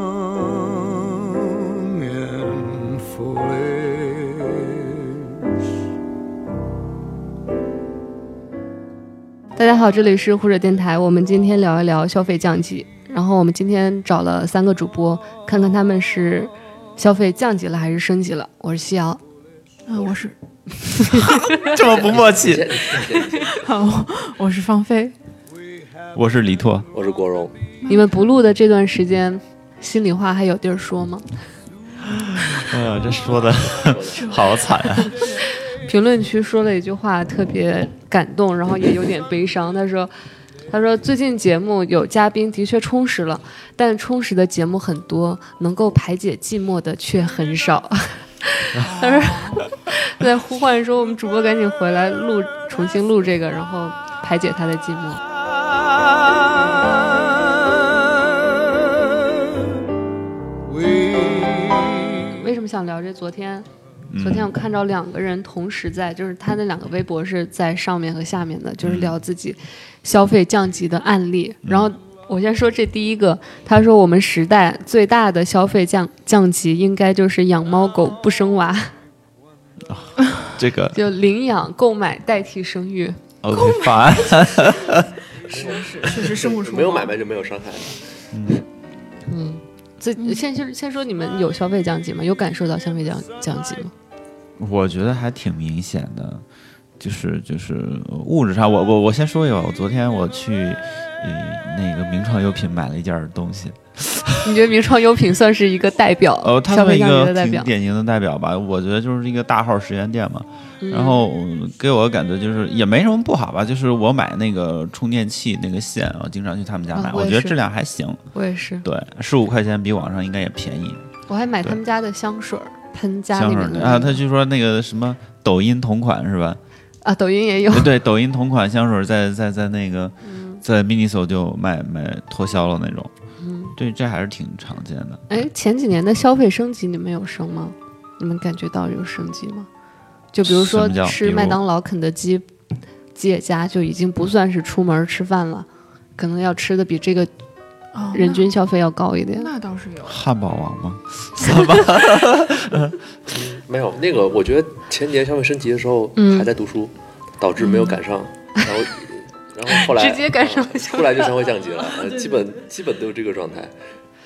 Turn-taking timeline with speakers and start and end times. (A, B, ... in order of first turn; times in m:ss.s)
0:01.9-0:04.9 A
0:09.6-0:19.2 B
0:19.9-0:21.3 C
0:21.1-0:21.5 B
0:21.6-0:22.8 D
0:21.7-0:23.7 E
0:23.5-0:25.1 C
0:26.1-0:26.9 D
0:26.9-0:27.5 E
0:27.8-0:28.1 C
0:27.9-0:31.2 B
0:32.0-0:35.4 D
0:33.3-0:34.5 E
0:34.1-0:34.5 C
0:35.4-0:40.1 B
0:40.7-0:55.2 B
0:48.8-0:49.6 C
0:56.6-0:57.9 A
1:00.7-1:02.1 A
1:01.1-1:01.5 B
1:02.2-1:03.6 B
1:04.1-1:04.5 D
1:04.2-1:18.9 B
1:08.8-1:09.2 D
1:11.6-1:11.9 D
1:19.8-1:21.0 D
1:20.9-1:23.2 B
1:23.4-1:25.1 D
1:23.5-1:27.1 C
1:25.5-1:28.1 E
1:28.3-1:28.6 D
1:29.2-1:33.9 B
1:34.6-1:36.4 D
1:37.0-1:44.5 D
1:44.4-1:47.7 B
1:46.4-1:58.2 D
1:50.8-1:51.3 B
1:56.9-1:57.6 B
1:58.3-1:58.8 B
1:58.8-2:01.0 D
2:01.3-2:04.2 B
2:03.3-2:06.6 D
2:07.0-2:07.9 B
2:07.7-2:13.1 D
2:10.2-2:10.6 B
2:13.4-2:13.8 B
2:13.8-2:15.2 D
2:15.3-2:19.7 B
2:20.3-2:22.4 B
2:20.4-2:21.6 D
2:23.1-2:27.3 B
2:27.9-2:28.5 C
2:28.1-2:29.5 B
2:29.4-2:30.2 C
2:30.0-2:33.0 D
2:33.3-2:43.7 E
2:36.2-2:36.5 B
2:37.6-2:38.0 C
2:39.7-2:41.3 B